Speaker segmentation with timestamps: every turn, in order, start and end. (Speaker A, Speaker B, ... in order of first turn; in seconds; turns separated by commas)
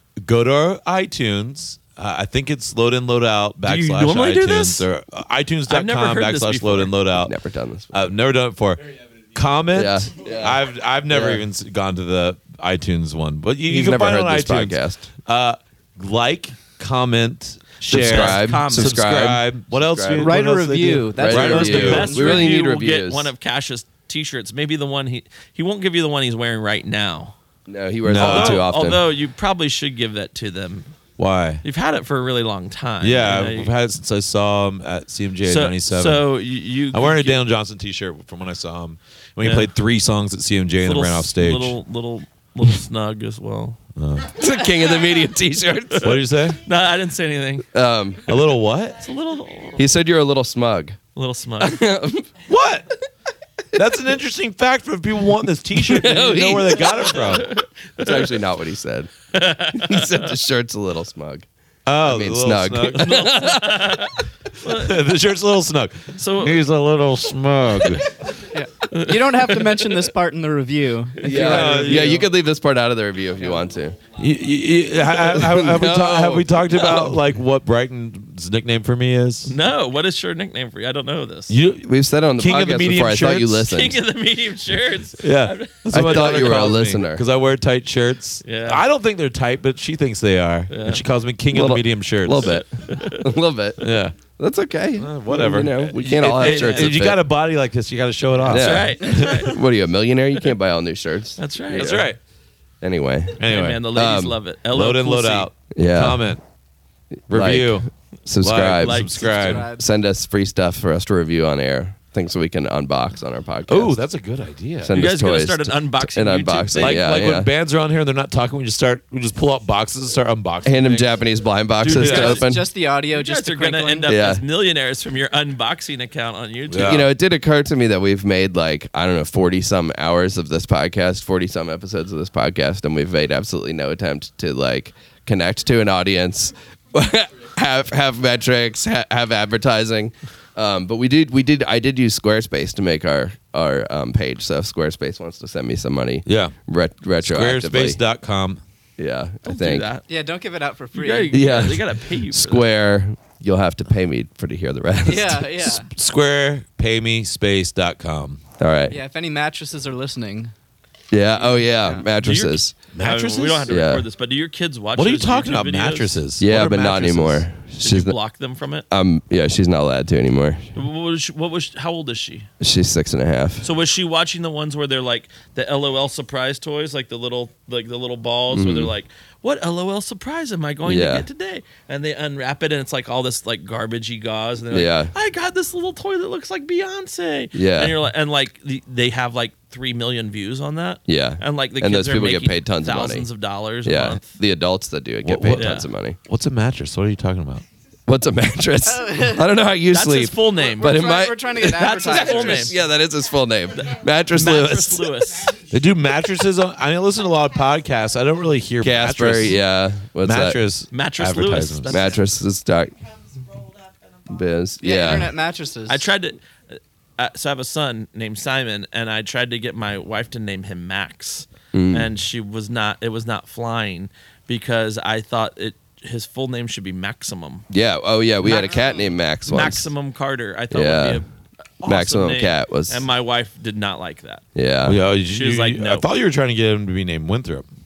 Speaker A: 0.2-7.3, Speaker B: 3.6-4.8, Speaker B: 5.7-7.0, Speaker C: 7.2-8.1, Speaker A: 7.9-22.4, Speaker C: 9.7-11.4, Speaker C: 13.6-15.1, Speaker C: 17.9-20.4, Speaker B: 17.9-19.1, Speaker D: 20.1-22.4, Speaker C: 21.1-23.3, Speaker B: 21.6-27.3, Speaker C: 27.7-29.0, Speaker A: 28.1-28.6, Speaker B: 28.1-30.9, Speaker A: 31.2-31.6, Speaker B: 31.6-33.7, Speaker A: 33.0-36.3, Speaker B: 35.4-37.4, Speaker A: 36.9-41.8, Speaker B: 39.4-39.7, Speaker B: 40.8-43.8, Speaker A: 44.0-44.5, Speaker C: 44.3-46.2, Speaker B: 45.9-47.7, Speaker A: 46.0-46.6, Speaker C: 47.7-48.3, Speaker A: 48.3-49.0, Speaker B: 49.0-49.8, Speaker C: 49.7-51.0, Speaker B: 51.1-51.8, Speaker C: 51.6-52.3, Speaker A: 52.5-53.0, Speaker A: 53.7-57.5, Speaker C: 55.7-59.1, Speaker B: 56.9-58.4, Speaker B: 59.3-60.3, Speaker C: 59.7-61.5, Speaker A: 61.9-63.3, Speaker C: 62.0-64.1, Speaker B: 63.0-65.1, Speaker A: 64.8-68.3, Speaker B: 66.1-66.6, Speaker D: 68.5-72.2, Speaker B: 68.9-69.9, Speaker B: 71.2-72.2, Speaker C: 71.2-74.0, Speaker A: 71.3-72.2, Speaker A: 74.1-79.5, Speaker C: 75.2-77.2, Speaker B: 79.4-81.5, Speaker A: 81.5-83.7, Speaker C: 81.8-84.0, Speaker B: 83.7-86.7, Speaker A: 85.2-92.6, Speaker C: 85.9-87.2, Speaker B: 88.4-88.8, Speaker B: 90.7-91.0, Speaker C: 91.5-97.2, Speaker B: 92.5-93.3, Speaker A: 93.8-94.1, Speaker A: 95.0-99.5, Speaker B: 96.0-97.0, Speaker C: 98.4-102.1, Speaker B: 98.5-99.6, Speaker B: 101.4-102.1, Speaker A: 101.7-102.2, Speaker C: 102.8-104.4, Speaker A: 103.4-103.8, Speaker B: 103.4-105.5, Speaker A: 104.7-106.4, Speaker C: 105.7-106.3, Speaker C: 107.3-114.0, Speaker A: 107.3-107.9, Speaker A: 108.4-109.7, Speaker B: 108.5-109.6, Speaker D: 109.2-109.8, Speaker A: 113.7-114.9, Speaker C: 114.8-117.5, Speaker B: 114.9-117.1, Speaker A: 116.8-121.2, Speaker C: 120.6-122.7, Speaker D: 121.8-124.1, Speaker B: 121.9-122.4, Speaker A: 121.9-122.4, Speaker B: 123.1-127.1, Speaker C: 124.1-124.4, Speaker A: 126.7-127.1, Speaker C: 126.8-148.0, Speaker A: 146.2-146.5, Speaker A: 147.2-148.6, Speaker C: 149.0-149.9, Speaker B: 149.4-150.1, Speaker D: 150.1-151.5, Speaker B: 150.9-152.7, Speaker C: 151.3-155.7, Speaker D: 155.0-155.9, Speaker A: 155.6-158.4, Speaker C: 158.6-158.9, Speaker D: 158.9-160.5, Speaker C: 161.1-162.8, Speaker D: 161.7-162.0, Speaker B: 162.2-166.2, Speaker A: 162.9-163.8, Speaker C: 163.7-164.1, Speaker A: 164.9-167.4, Speaker C: 166.4-168.1, Speaker B: 167.8-168.8, Speaker C: 168.9-170.7, Speaker B: 170.7-172.5, Speaker C: 172.6-173.7, Speaker B: 173.6-194.4, Speaker C: 178.5-178.9, Speaker C: 180.8-181.3, Speaker C: 184.7-185.1, Speaker C: 187.5-188.0, Speaker C: 191.1-193.3, Speaker C: 193.8-196.2, Speaker A: 195.2-197.6, Speaker B: 195.5-195.9, Speaker C: 198.1-205.2, Speaker D: 198.8-199.5, Speaker B: 199.9-202.8, Speaker D: 200.6-202.7, Speaker E: 202.4-204.4, Speaker B: 203.7-205.6, Speaker E: 205.3-208.6, Speaker A: 205.7-209.6, Speaker C: 208.8-210.6, Speaker A: 210.2-211.9, Speaker B: 210.9-212.2, Speaker C: 211.9-212.9, Speaker E: 212.0-214.6, Speaker C: 214.3-215.3, Speaker D: 214.8-216.1, Speaker B: 215.9-227.7, Speaker C: 221.7-222.1, Speaker C: 227.7-229.9, Speaker B: 228.4-228.8, Speaker E: 228.6-229.1, Speaker B: 229.4-231.2, Speaker C: 230.7-231.2, Speaker B: 231.8-234.4, Speaker C: 231.8-233.1, Speaker C: 234.5-235.0, Speaker A: 234.8-237.7, Speaker B: 235.1-236.1